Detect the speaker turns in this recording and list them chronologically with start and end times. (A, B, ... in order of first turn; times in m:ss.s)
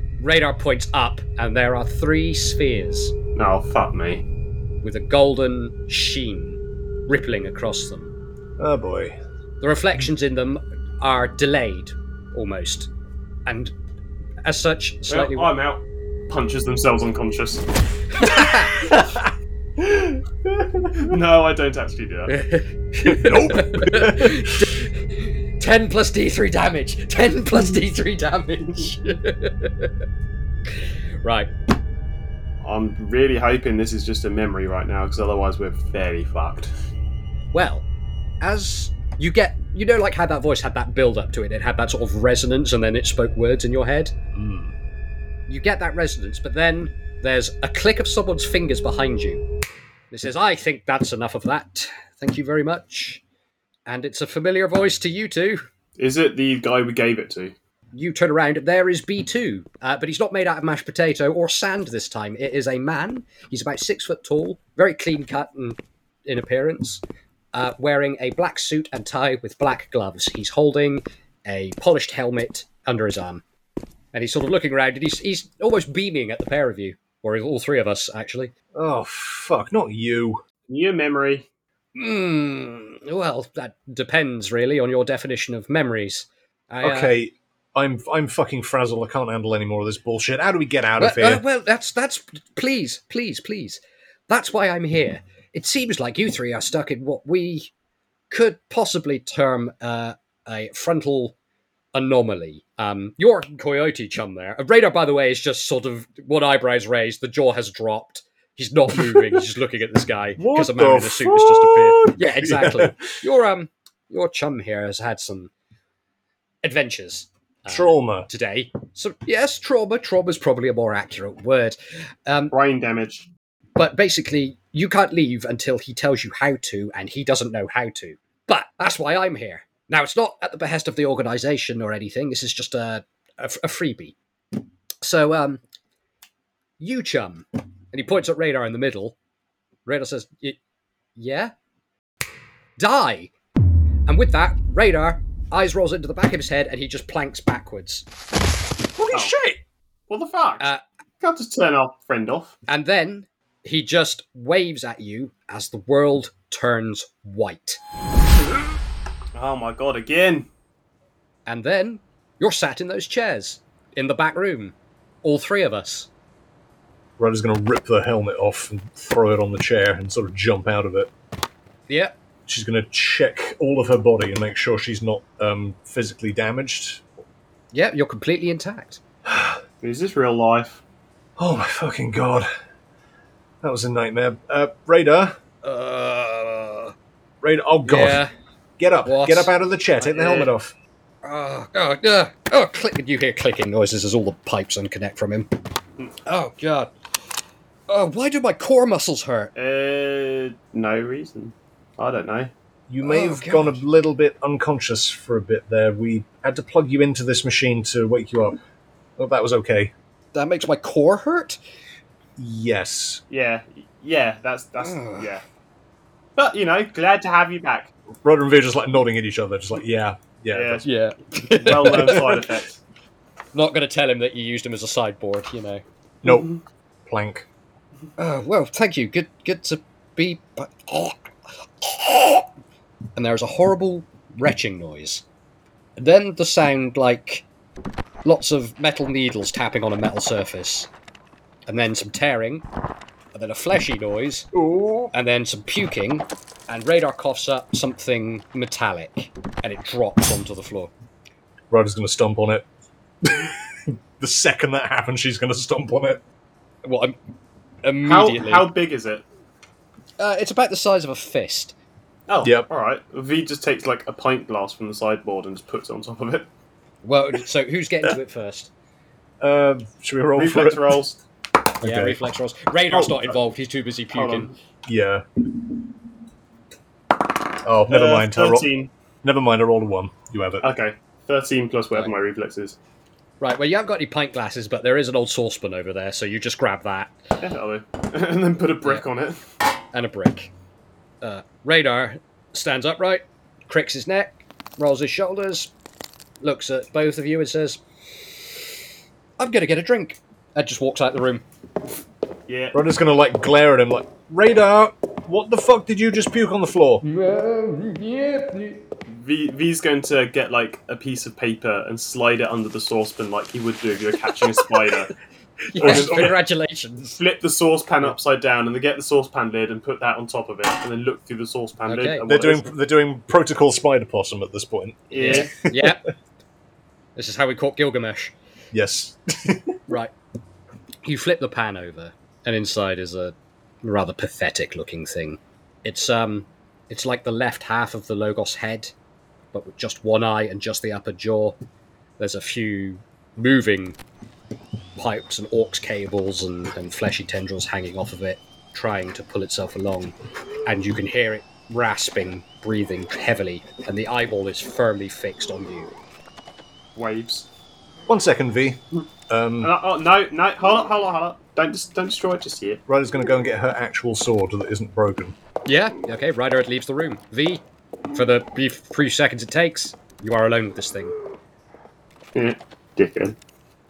0:00.2-0:03.2 A
0:03.4-0:04.2 B
0:04.8-0:08.1 A
0:08.6-0:09.2 C
0:09.6-0:12.9 A
0:13.5-0:13.7 A
0:14.4-0:15.6 A
0:15.1-0:17.6 B
0:18.1-0:18.9 A
0:18.4-0:21.2 C
0:21.0-0:22.3 B
0:22.3-0:29.9 A
0:23.0-0:24.7 C
0:31.2-0:31.5 A
0:32.6-0:36.7 B
0:37.5-0:37.8 A
0:38.4-0:44.1 A
0:44.4-0:44.7 C
0:45.5-0:49.4 A
0:50.1-0:53.2 A
0:53.9-0:55.6 A
0:56.0-0:57.5 B
0:57.9-1:13.4 A
1:14.1-1:18.5 A
1:18.8-1:20.4 C
1:20.7-1:21.5 B
1:22.0-1:27.1 A
1:26.8-1:31.4 C
1:31.0-1:37.7 A
1:38.3-1:41.4 A
1:41.9-1:55.5 A
1:49.0-1:49.2 C
1:50.4-1:53.0 C
1:56.6-2:02.6 A
1:57.7-1:58.3 C
2:02.5-2:03.3 B
2:03.8-2:14.2 A
2:15.0-2:15.6 A
2:16.8-2:19.2 A
2:19.9-2:20.6 A
2:21.2-2:21.5 A
2:22.8-2:23.3 A
2:24.1-2:28.1 A
2:29.0-2:29.6 C
2:30.1-2:30.7 B
2:31.2-2:32.6 B
2:32.7-2:37.8 A
2:39.4-2:40.5 B
2:41.5-2:46.1 A
2:47.2-2:51.1 C
2:51.9-2:52.1 A
2:52.5-2:57.0 C
2:57.7-2:59.0 A
2:59.3-2:59.6 C
2:59.8-3:00.8 B
3:01.4-3:02.5 C
3:03.6-3:05.4 C
3:05.6-3:06.9 A
3:07.4-3:08.2 C
3:07.8-3:08.3 A
3:08.8-3:10.8 C
3:09.0-3:09.5 A
3:10.1-3:10.5 B
3:11.2-3:15.5 A
3:16.3-3:16.9 A
3:17.9-3:19.5 A
3:19.6-3:22.5 B
3:22.9-3:28.6 C
3:23.0-3:23.8 A
3:29.2-3:29.9 C
3:30.3-3:31.6 A
3:32.4-3:33.2 C
3:33.3-3:35.4 B
3:34.8-3:35.3 A
3:36.4-3:37.9 B
3:38.2-3:40.8 C
3:40.5-3:40.8 B
3:40.8-3:42.4 A
3:41.5-3:42.8 B
3:41.9-3:42.4 C
3:43.5-3:45.8 A
3:46.2-3:46.5 C
3:47.1-3:47.5 C
3:48.2-3:51.2 A
3:51.8-3:52.5 A
3:53.2-3:55.2 A
3:56.0-3:57.5 A
3:58.2-4:00.9 A
4:01.7-4:02.6 A
4:03.3-4:04.5 A
4:04.5-4:05.1 C
4:05.1-4:10.9 A
4:11.7-4:12.7 C
4:13.2-4:16.2 C
4:16.8-4:17.2 A
4:17.8-4:18.7 A
4:18.0-4:19.2 B
4:20.2-4:21.8 A
4:22.3-4:26.5 B
4:27.0-4:28.7 A
4:29.4-4:31.0 C
4:30.4-4:31.2 B
4:31.8-4:32.2 C
4:31.8-4:34.5 A
4:34.1-4:34.5 B
4:34.9-4:35.2 C
4:37.6-4:38.7 C
4:37.9-4:38.9 B
4:39.2-4:40.7 C
4:40.6-4:42.8 B
4:43.4-4:47.1 A
4:47.4-4:49.4 B
4:49.9-4:50.5 A
4:51.2-4:55.7 A
4:56.4-4:57.8 A
4:59.4-5:01.4 A
5:02.5-5:02.8 B
5:02.7-5:07.0 C
5:07.0-5:08.8 A
5:09.1-5:15.1 B
5:15.7-5:17.2 A
5:15.8-5:16.4 C
5:15.8-5:16.3 B
5:17.2-5:22.7 B
5:21.9-5:22.2 A
5:22.2-5:26.0 C
5:25.1-5:25.5 B
5:25.2-5:26.0 A
5:27.2-5:28.3 A
5:28.7-5:29.8 C
5:31.0-5:38.9 A
5:39.5-5:41.6 A
5:42.2-5:44.0 A
5:45.0-5:55.9 A
5:57.0-5:57.5 B
5:58.1-5:59.7 C
5:59.6-6:02.8 B
6:02.9-6:05.4 C
6:05.7-6:11.2 A
6:12.4-6:13.4 B